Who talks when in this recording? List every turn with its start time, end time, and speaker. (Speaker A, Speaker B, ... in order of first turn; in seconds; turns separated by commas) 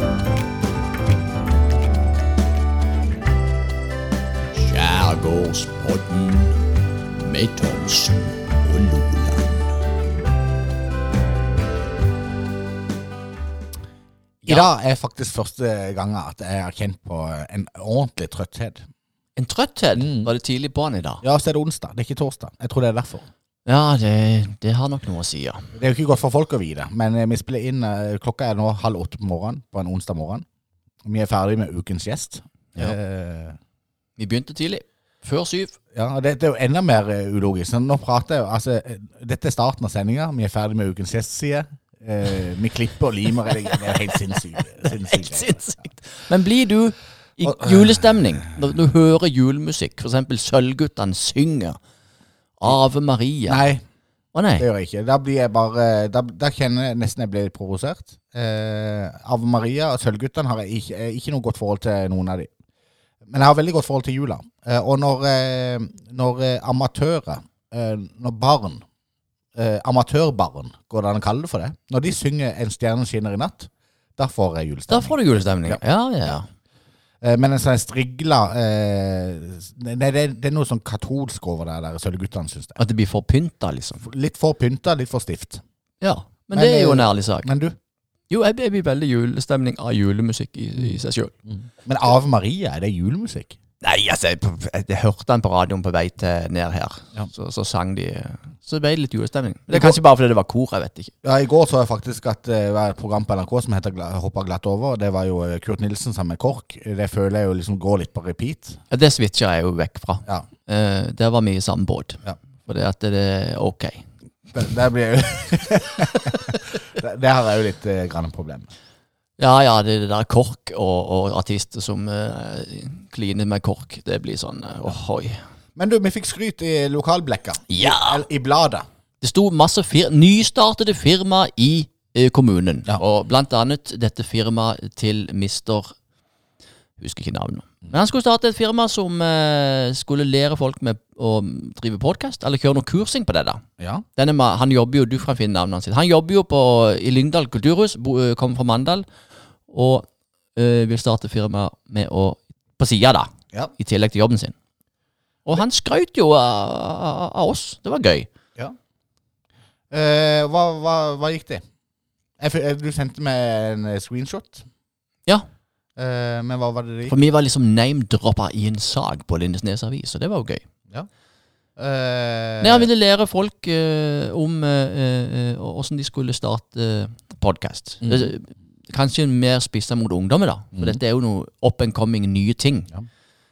Speaker A: 4.5-6.6, Speaker A: 7.2-9.6, Speaker B: 14.4-14.7, Speaker C: 14.5-18.9, Speaker B: 19.4-21.2, Speaker C: 20.0-20.3, Speaker C: 21.2-23.3, Speaker B: 23.6-25.7, Speaker C: 25.8-30.4, Speaker C: 31.0-33.6, Speaker B: 34.2-35.7, Speaker C: 35.9-45.9, Speaker B: 44.8-51.8, Speaker C: 47.5-48.0, Speaker B: 52.6-53.6, Speaker C: 53.5-53.8, Speaker B: 54.3-54.6, Speaker C: 54.6-62.5, Speaker C: 63.3-68.8, Speaker C: 69.5-76.3, Speaker B: 74.9-76.5, Speaker C: 77.2-82.8, Speaker B: 82.8-84.0, Speaker C: 84.0-85.6, Speaker B: 86.0-87.5, Speaker C: 86.5-87.8, Speaker B: 88.3-91.3, Speaker C: 91.5-93.6, Speaker B: 93.8-101.1, Speaker C: 99.7-100.0, Speaker C: 101.2-108.8, Speaker B: 108.9-114.1, Speaker C: 114.5-118.7, Speaker B: 119.4-125.4, Speaker C: 125.8-128.8, Speaker B: 127.7-128.2, Speaker B: 129.2-135.9, Speaker B: 137.0-143.6, Speaker C: 143.8-144.0, Speaker B: 144.2-149.1, Speaker B: 149.7-154.5, Speaker B: 155.4-158.3, Speaker C: 159.9-161.6, Speaker C: 162.4-164.7, Speaker C: 166.0-167.1, Speaker B: 167.1-170.6, Speaker C: 171.8-172.9, Speaker B: 172.6-182.9, Speaker C: 178.0-178.3